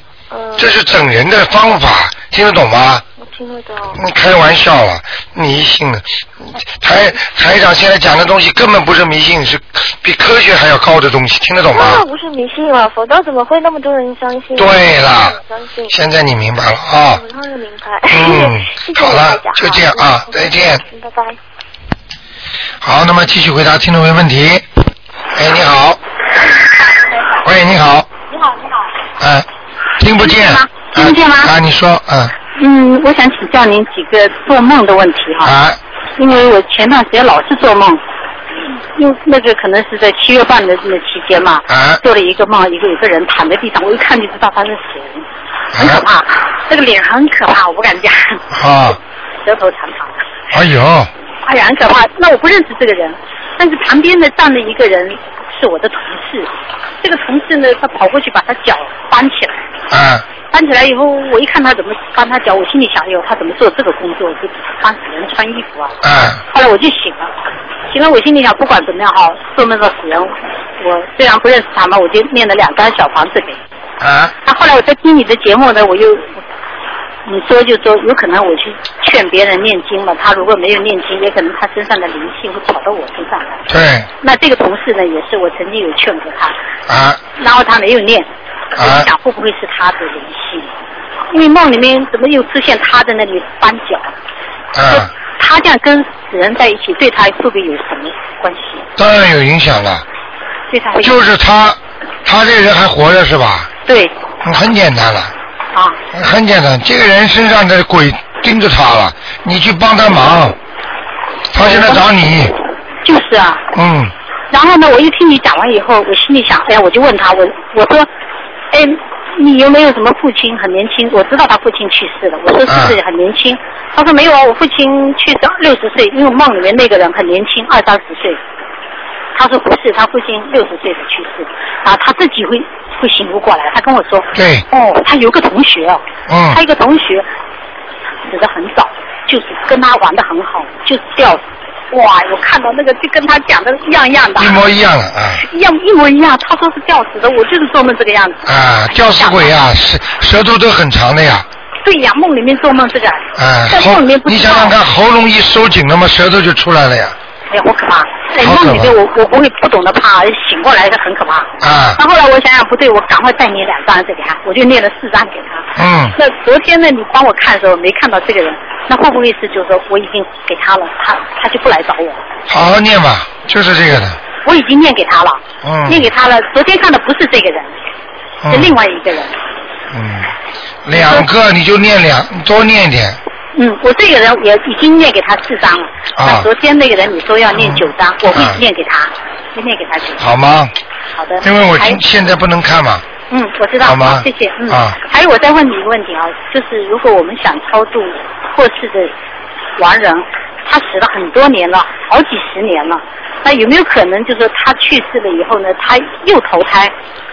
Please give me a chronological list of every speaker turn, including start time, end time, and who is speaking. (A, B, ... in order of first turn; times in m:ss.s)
0:00.3-0:00.7 A
0:00.6-0:03.0 B
0:03.2-0:04.0 A
0:04.0-0:12.0 B
0:11.7-0:16.0 A
0:14.6-0:15.4 B
0:15.9-0:17.2 B
0:17.1-0:21.4 A
0:18.1-0:20.8 B
0:22.8-0:24.6 B
0:25.3-0:26.0 B
0:27.4-0:28.1 B
0:28.3-0:28.7 C
0:29.2-0:29.5 B
0:30.0-0:32.4 B
0:30.2-0:31.5 C
0:32.5-0:35.5 C
0:35.4-0:35.8 B
0:36.2-0:38.0 C
0:38.9-0:45.3 C
0:41.7-0:42.0 B
0:45.7-0:46.0 B
0:45.8-0:48.4 C
0:48.5-0:49.0 B
0:49.4-0:50.2 C
0:50.5-0:51.1 B
0:51.4-0:59.6 C
0:59.9-1:00.3 B
1:00.5-1:06.0 C
1:06.0-1:06.4 B
1:06.5-1:07.3 C
1:07.9-1:13.6 C
1:14.0-1:14.3 B
1:14.4-1:16.4 C
1:17.2-1:23.6 C
1:23.7-1:24.1 B
1:24.2-1:26.6 C
1:26.9-1:27.2 B
1:27.4-1:30.7 C
1:28.8-1:29.1 B
1:31.3-1:34.1 C
1:34.7-1:35.1 B
1:34.9-1:38.8 C
1:39.0-1:40.0 B
1:40.7-1:41.2 C
1:41.0-1:43.7 B
1:43.9-1:44.1 C
1:44.4-1:45.3 B
1:45.7-1:46.0 C
1:46.1-1:50.6 B
1:51.5-1:52.5 B
1:51.6-1:52.1 C
1:53.0-1:53.6 C
1:53.7-1:54.1 B
1:54.5-1:58.1 C
1:58.7-2:08.4 C
2:02.7-2:03.0 B
2:09.4-2:17.3 C
2:14.3-2:14.7 B
2:16.3-2:16.6 B
2:18.3-2:24.6 C
2:24.4-2:25.4 B
2:25.4-2:29.6 C
2:28.5-2:31.5 B
2:31.8-2:34.8 C
2:33.4-2:37.2 B
2:37.5-2:52.2 C
2:38.4-2:39.0 B
2:41.6-2:42.0 B
2:45.8-2:46.2 B
2:52.5-2:54.2 B
2:54.4-2:57.7 C
2:55.6-2:56.1 B
2:58.4-2:58.8 B
2:58.5-2:59.4 C
2:59.9-3:00.3 B
3:00.8-3:03.2 B
3:00.9-3:01.3 C
3:03.6-3:10.2 C
3:06.2-3:06.5 B
3:07.5-3:08.6 B
3:10.2-3:10.7 B
3:11.2-3:12.0 C
3:11.4-3:13.0 B
3:13.3-3:19.1 C
3:13.8-3:15.0 B
3:19.8-3:26.9 C